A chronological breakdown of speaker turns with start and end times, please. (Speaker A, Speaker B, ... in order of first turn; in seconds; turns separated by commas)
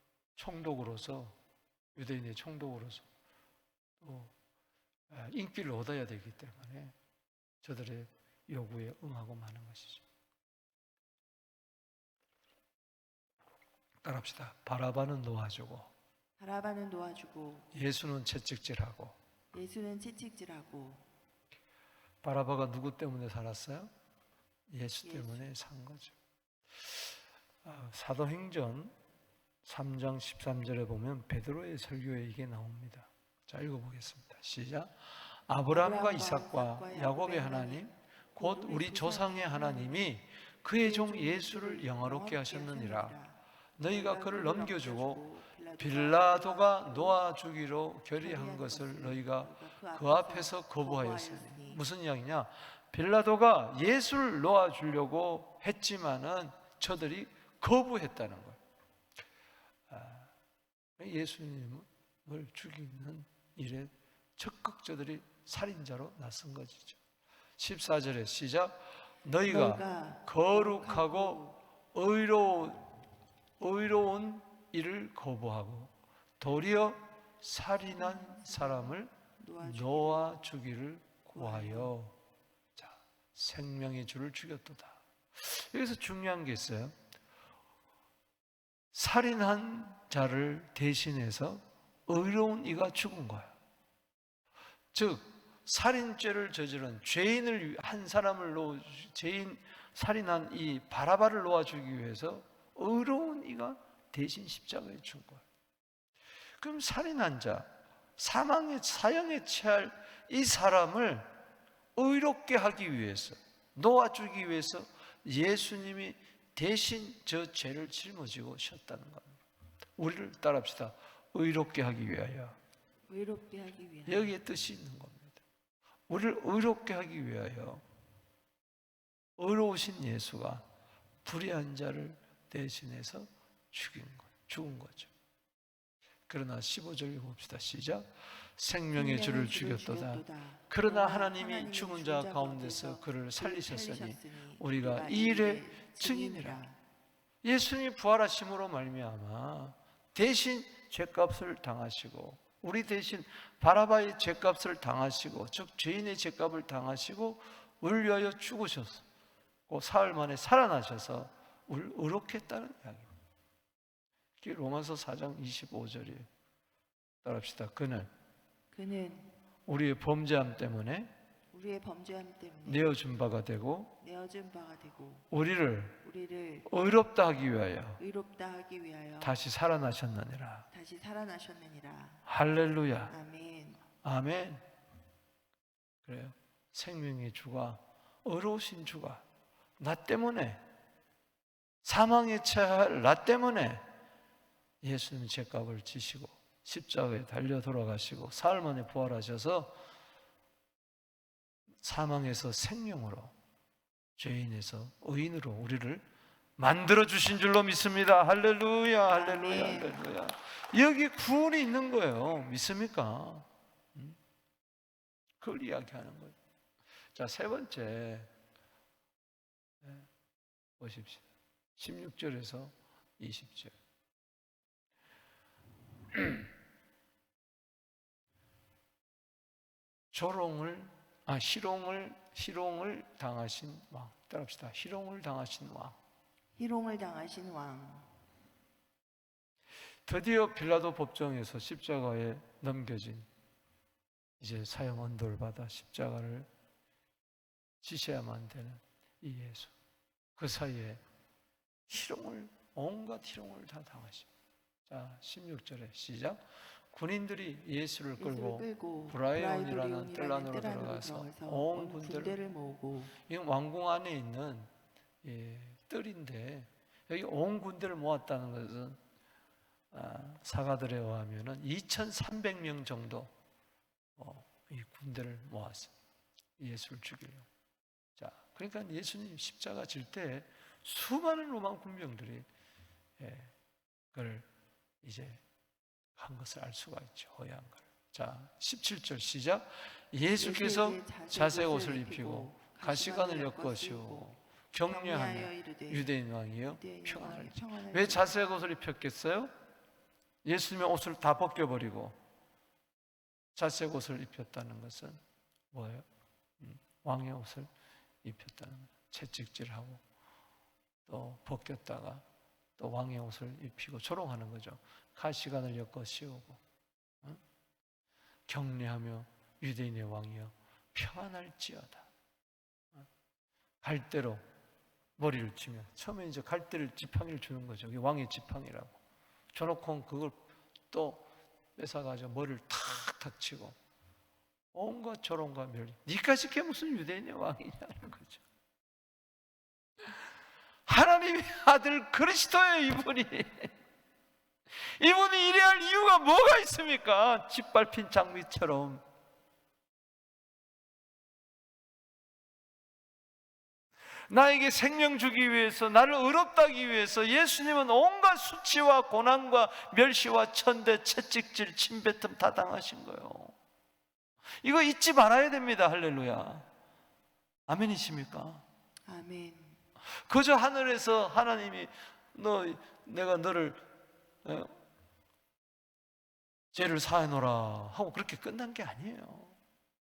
Speaker A: 0.4-1.4, Speaker A: 1.9-3.1, Speaker A: 4.0-4.3, Speaker A: 5.1-7.0, Speaker A: 7.6-10.1, Speaker A: 14.0-15.9, Speaker B: 16.4-17.7, Speaker A: 17.7-19.2, Speaker B: 19.5-21.1, Speaker A: 22.2-23.9, Speaker A: 24.7-26.2, Speaker B: 25.0-25.5, Speaker A: 26.8-28.9, Speaker A: 29.6-43.2, Speaker B: 35.7-40.1, Speaker B: 40.8-47.2, Speaker A: 43.8-45.2, Speaker A: 45.8-58.6, Speaker B: 48.2-51.8, Speaker A: 59.9-60.3, Speaker A: 61.0-67.0, Speaker A: 67.6-72.9, Speaker B: 69.5-71.5, Speaker A: 73.6-82.2, Speaker B: 77.9-80.4, Speaker B: 81.3-81.9, Speaker A: 82.8-87.0, Speaker A: 88.9-93.5, Speaker A: 94.9-105.4, Speaker A: 106.6-111.3, Speaker A: 112.0-119.4, Speaker A: 120.0-122.6, Speaker B: 123.1-124.4, Speaker A: 124.1-125.4, Speaker A: 126.1-127.8, Speaker A: 129.4-130.6, Speaker A: 131.2-135.1, Speaker A: 136.3-146.6, Speaker B: 138.9-146.8, Speaker A: 147.4-159.1, Speaker A: 159.7-163.1, Speaker A: 164.4-166.3, Speaker A: 167.2-168.1, Speaker B: 168.7-169.4, Speaker A: 169.7-171.1, Speaker B: 171.5-173.0, Speaker A: 172.7-174.0, Speaker B: 174.0-175.3, Speaker A: 175.3-176.0, Speaker B: 176.0-176.7, Speaker A: 176.7-178.0, Speaker B: 178.0-179.4, Speaker A: 179.2-180.7, Speaker B: 180.7-182.2, Speaker A: 182.3-183.1, Speaker B: 183.1-183.8, Speaker A: 184.0-184.7, Speaker A: 186.1-189.2, Speaker A: 189.8-190.6, Speaker A: 191.8-193.8, Speaker A: 194.8-199.8, Speaker A: 201.8-203.3, Speaker A: 204.2-206.1, Speaker A: 206.6-214.2, Speaker B: 209.1-210.0, Speaker A: 215.4-216.4, Speaker A: 217.2-218.3, Speaker A: 219.8-220.1, Speaker A: 220.8-223.8, Speaker A: 230.1-236.0, Speaker B: 236.6-238.1, Speaker A: 240.1-243.3, Speaker A: 244.4-246.5, Speaker A: 247.8-249.7, Speaker A: 250.4-251.0, Speaker A: 251.9-254.3, Speaker A: 254.9-262.4, Speaker B: 258.2-263.1, Speaker A: 263.2-264.7, Speaker A: 265.2-269.0, Speaker A: 269.9-273.3, Speaker A: 274.2-275.9, Speaker A: 276.6-277.5, Speaker A: 278.2-282.5, Speaker A: 283.2-283.5, Speaker A: 284.1-284.5, Speaker A: 285.0-285.4, Speaker A: 286.2-299.5, Speaker B: 290.4-294.3, Speaker B: 294.9-296.1, Speaker B: 296.8-298.3, Speaker A: 300.4-302.2, Speaker A: 303.6-305.2, Speaker A: 305.7-306.1, Speaker A: 306.6-307.7, Speaker A: 308.2-310.0, Speaker A: 311.1-312.2, Speaker A: 312.8-316.6, Speaker A: 318.5-322.1, Speaker A: 323.8-324.4, Speaker A: 325.2-329.0, Speaker A: 329.5-333.8, Speaker A: 334.7-338.4, Speaker A: 340.9-343.7, Speaker A: 344.7-349.0, Speaker A: 354.3-363.6, Speaker A: 364.6-366.7, Speaker A: 367.7-368.6, Speaker B: 369.1-369.8, Speaker A: 370.2-373.9, Speaker A: 374.4-374.8, Speaker A: 376.7-379.6